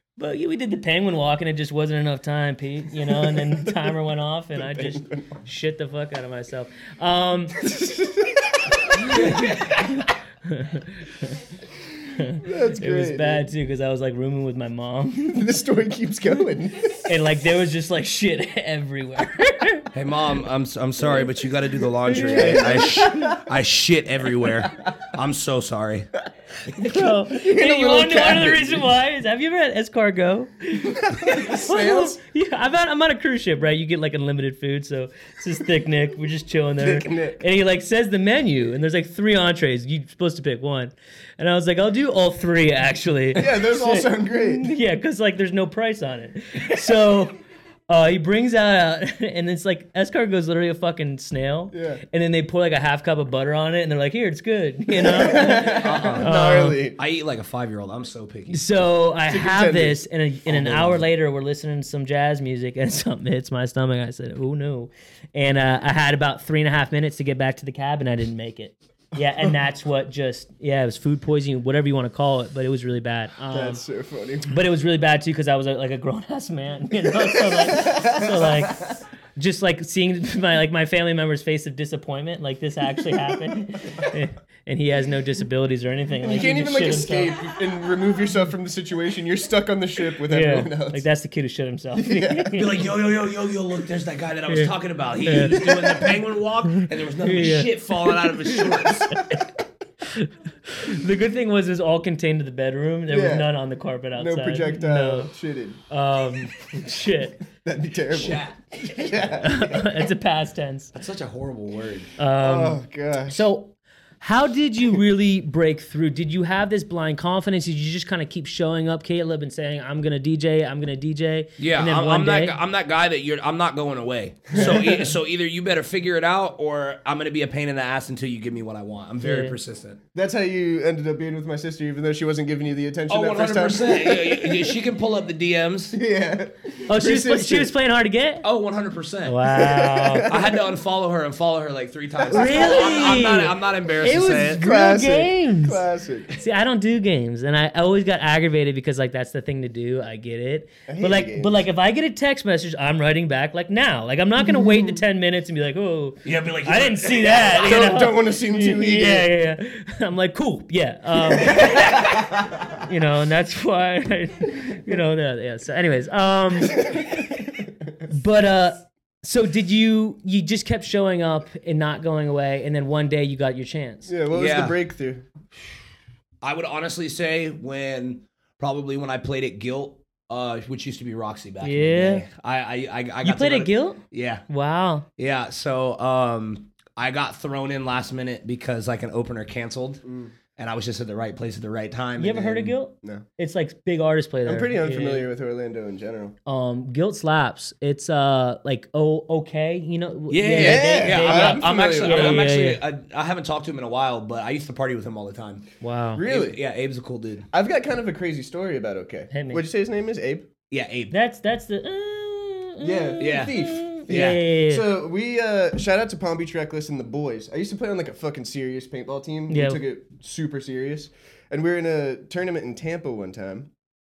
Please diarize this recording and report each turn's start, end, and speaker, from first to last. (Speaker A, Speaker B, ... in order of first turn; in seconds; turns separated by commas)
Speaker A: 0.2-7.6, Speaker B: 3.1-3.9, Speaker B: 4.5-5.4, Speaker B: 7.6-9.2, Speaker A: 8.9-9.5, Speaker C: 9.1-9.9, Speaker A: 10.5-11.3, Speaker A: 12.2-15.4, Speaker B: 12.3-13.5, Speaker B: 15.3-17.0, Speaker A: 17.0-19.9, Speaker C: 19.9-26.2, Speaker A: 22.1-23.3, Speaker B: 22.1-23.3, Speaker A: 26.8-47.4, Speaker B: 26.8-28.9, Speaker B: 30.8-32.2, Speaker B: 36.8-37.4, Speaker B: 43.3-44.7, Speaker A: 47.9-56.8, Speaker B: 51.7-52.0, Speaker B: 54.9-57.0, Speaker C: 55.5-56.3, Speaker C: 57.0-58.7, Speaker A: 58.5-73.8, Speaker B: 59.3-61.0, Speaker B: 73.5-74.6, Speaker A: 74.5-87.4, Speaker B: 77.3-79.0, Speaker B: 86.2-91.0, Speaker A: 90.3-92.8, Speaker B: 91.9-92.6, Speaker C: 92.5-99.4, Speaker A: 94.5-94.7, Speaker A: 95.2-95.8, Speaker B: 95.6-96.1, Speaker A: 96.8-99.2, Speaker B: 98.8-99.2, Speaker A: 100.1-105.3, Speaker B: 103.1-103.5, Speaker B: 104.1-105.8, Speaker A: 105.9-107.4, Speaker B: 107.6-110.1, Speaker C: 108.1-109.4, Speaker A: 109.4-110.9, Speaker C: 110.9-112.1, Speaker A: 112.2-122.5, Speaker B: 112.3-113.4, Speaker C: 121.6-130.0, Speaker B: 124.5-125.0, Speaker A: 129.2-129.5, Speaker B: 130.1-134.8, Speaker C: 133.1-136.0, Speaker B: 135.9-137.7, Speaker A: 136.9-138.4, Speaker C: 138.4-139.4, Speaker A: 139.2-140.3, Speaker B: 139.5-140.6, Speaker C: 140.2-144.6, Speaker B: 142.2-143.2, Speaker A: 142.3-162.2, Speaker B: 144.5-146.3, Speaker B: 150.9-151.6, Speaker B: 154.5-155.0, Speaker C: 156.2-157.9, Speaker B: 157.5-159.3, Speaker B: 161.4-161.7, Speaker A: 162.8-166.9, Speaker B: 166.8-167.1, Speaker A: 168.1-174.1, Speaker B: 174.1-175.3, Speaker C: 174.3-174.8, Speaker C: 176.4-184.4, Speaker A: 181.6-182.2, Speaker A: 183.2-185.0, Speaker C: 185.2-190.0, Speaker B: 190.0-190.3, Speaker C: 190.6-192.8, Speaker A: 192.2-195.3, Speaker B: 194.4-196.3, Speaker A: 196.4-202.8, Speaker C: 200.3-205.7, Speaker B: 200.5-202.4, Speaker A: 205.8-206.2, Speaker B: 206.2-206.6, Speaker C: 206.2-207.5, Speaker B: 207.5-210.5, Speaker A: 209.3-209.6, Speaker C: 210.7-211.1, Speaker A: 211.1-214.8, Speaker B: 212.8-223.7, Speaker C: 213.2-214.4, Speaker A: 219.5-219.8